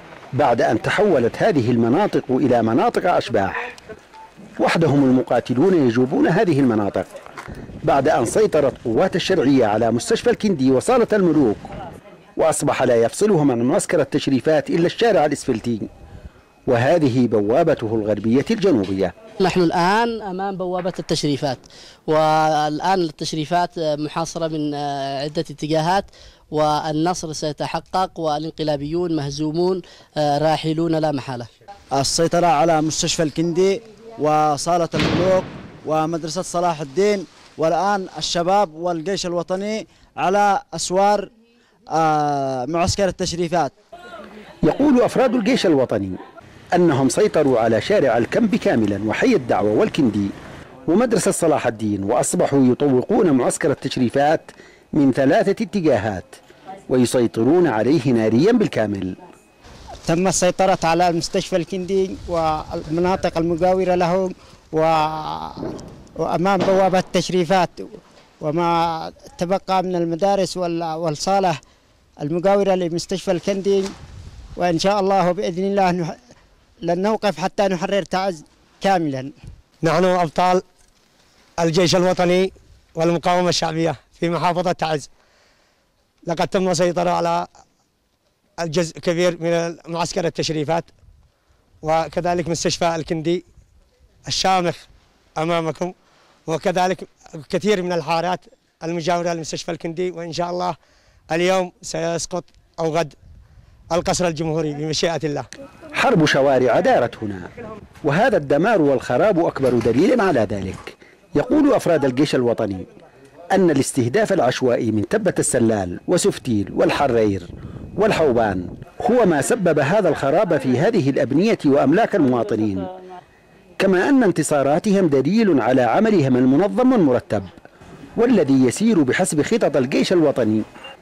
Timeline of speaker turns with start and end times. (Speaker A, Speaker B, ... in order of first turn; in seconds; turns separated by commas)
Speaker A: 0.3-3.6, Speaker A: 4.6-7.1, Speaker A: 7.8-11.7, Speaker A: 12.4-15.9, Speaker A: 16.7-19.1, Speaker B: 19.4-31.5, Speaker C: 31.9-41.3, Speaker C: 42.0-43.7, Speaker A: 44.6-46.2, Speaker A: 46.7-50.3, Speaker A: 50.9-56.3, Speaker A: 56.9-59.1, Speaker D: 60.1-65.7, Speaker D: 66.2-71.6, Speaker D: 72.2-73.9, Speaker D: 74.6-76.2, Speaker D: 76.8-79.3, Speaker E: 79.8-80.6, Speaker E: 81.6-85.1, Speaker E: 86.2-87.5, Speaker E: 88.6-90.9, Speaker E: 91.8-93.4, Speaker E: 94.3-94.8, Speaker E: 95.4-95.9, Speaker E: 96.5-100.8, Speaker E: 101.3-103.1, Speaker E: 103.9-105.5, Speaker A: 106.0-107.5, Speaker A: 108.0-112.9, Speaker A: 113.5-122.9, Speaker A: 123.8-127.5, Speaker A: 128.2-130.6